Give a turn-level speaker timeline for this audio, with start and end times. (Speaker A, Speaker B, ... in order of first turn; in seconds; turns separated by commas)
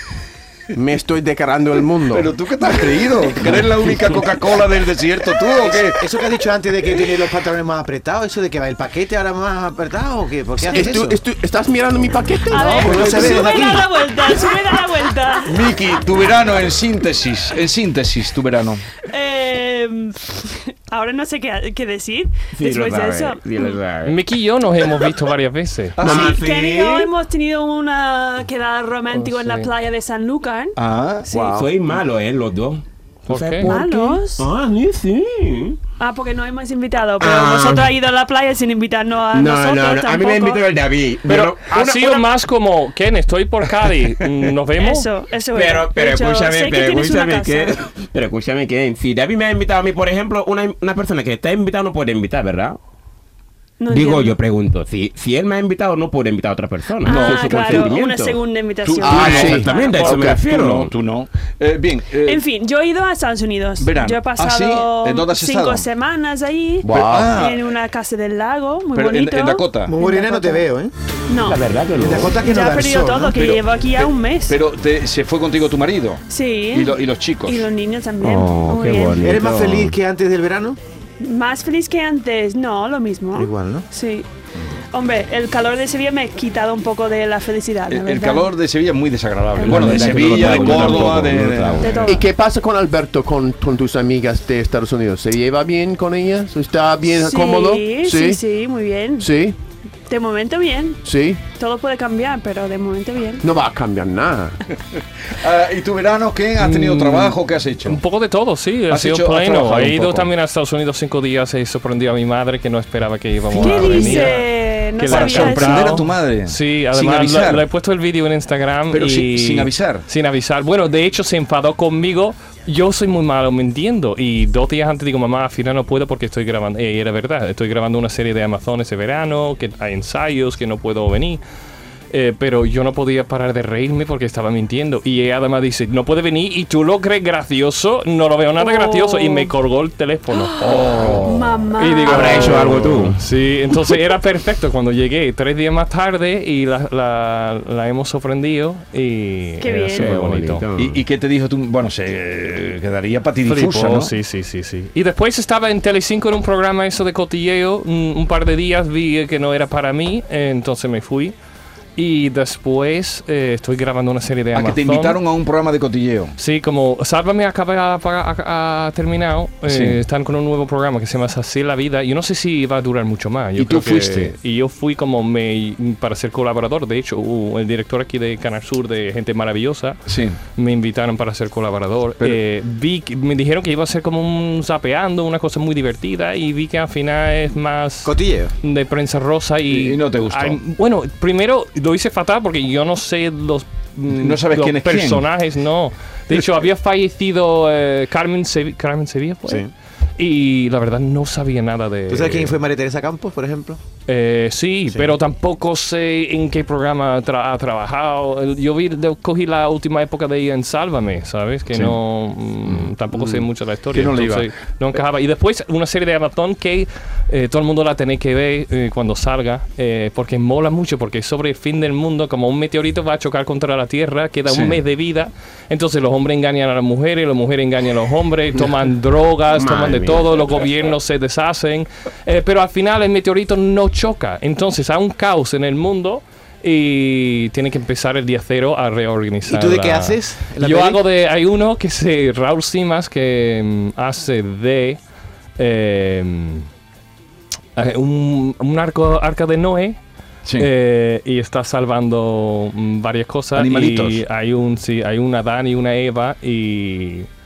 Speaker A: 0.7-2.3, Speaker B: 2.0-6.1, Speaker C: 5.7-11.2, Speaker D: 10.6-10.9, Speaker A: 10.7-13.3, Speaker D: 12.5-15.7, Speaker C: 12.6-13.9, Speaker B: 15.4-18.8, Speaker D: 19.0-23.8, Speaker E: 22.5-24.1, Speaker F: 24.0-26.0, Speaker B: 26.0-26.4, Speaker E: 26.0-27.1, Speaker D: 26.0-30.8, Speaker F: 29.1-29.7, Speaker B: 30.8-31.3, Speaker A: 31.3-31.7, Speaker E: 31.4-35.8, Speaker F: 33.3-33.8, Speaker D: 33.6-34.5, Speaker D: 36.0-40.6, Speaker E: 37.2-37.9, Speaker E: 39.3-41.9, Speaker F: 41.3-45.1, Speaker D: 44.8-47.8, Speaker E: 45.5-52.8, Speaker D: 53.8-54.4, Speaker E: 53.9-58.4, Speaker D: 57.0-60.1, Speaker B: 57.0-58.0, Speaker B: 58.8-62.4, Speaker E: 59.0-60.9, Speaker A: 59.1-59.7, Speaker D: 62.2-70.7, Speaker B: 63.8-65.9, Speaker B: 66.8-67.7, Speaker A: 66.9-67.3, Speaker B: 68.9-70.0, Speaker C: 69.8-70.9, Speaker D: 71.3-71.7, Speaker E: 71.4-72.4, Speaker C: 71.9-73.4, Speaker D: 72.3-74.6, Speaker B: 73.3-76.2, Speaker D: 76.3-79.4, Speaker B: 76.7-77.6, Speaker E: 78.2-79.9, Speaker C: 79.2-80.8, Speaker D: 81.2-84.3, Speaker C: 83.3-83.8, Speaker D: 84.9-88.5, Speaker B: 87.9-92.2, Speaker D: 89.5-91.3, Speaker E: 89.7-92.0, Speaker D: 91.8-92.3, Speaker A: 92.0-98.4, Speaker D: 97.1-99.3, Speaker A: 99.2-99.5, Speaker D: 100.1-103.4, Speaker A: 101.0-101.4, Speaker A: 103.4-104.6, Speaker B: 105.2-108.0, Speaker F: 106.6-114.4, Speaker B: 108.9-110.3, Speaker B: 113.5-114.4, Speaker D: 113.5-116.0, Speaker F: 115.0-131.4, Speaker B: 115.1-117.6, Speaker B: 118.9-120.0, Speaker F: 132.1-150.6, Speaker D: 138.6-139.5, Speaker D: 140.5-142.8, Speaker B: 140.6-141.5, Speaker E: 142.1-143.2, Speaker D: 149.6-150.1, Speaker E: 149.9-151.0, Speaker B: 150.8-154.1, Speaker F: 153.4-161.3, Speaker F: 161.9-165.2, Speaker B: 164.5-166.3, Speaker F: 166.3-199.7, Speaker B: 169.7-170.0, Speaker B: 173.6-174.3, Speaker B: 180.1-180.4, Speaker C: 188.0-188.5, Speaker B: 189.7-190.6, Speaker B: 194.1-195.2, Speaker F: 200.2-202.6, Speaker C: 202.1-203.8, Speaker F: 204.1-245.0, Speaker B: 211.7-212.0, Speaker B: 212.7-214.5, Speaker B: 224.4-224.8, Speaker E: 229.5-230.3, Speaker C: 239.5-241.0, Speaker F: 245.6-246.7, Speaker F: 247.8-250.0, Speaker B: 250.4-250.7, Speaker F: 250.6-257.3, Speaker B: 253.5-254.2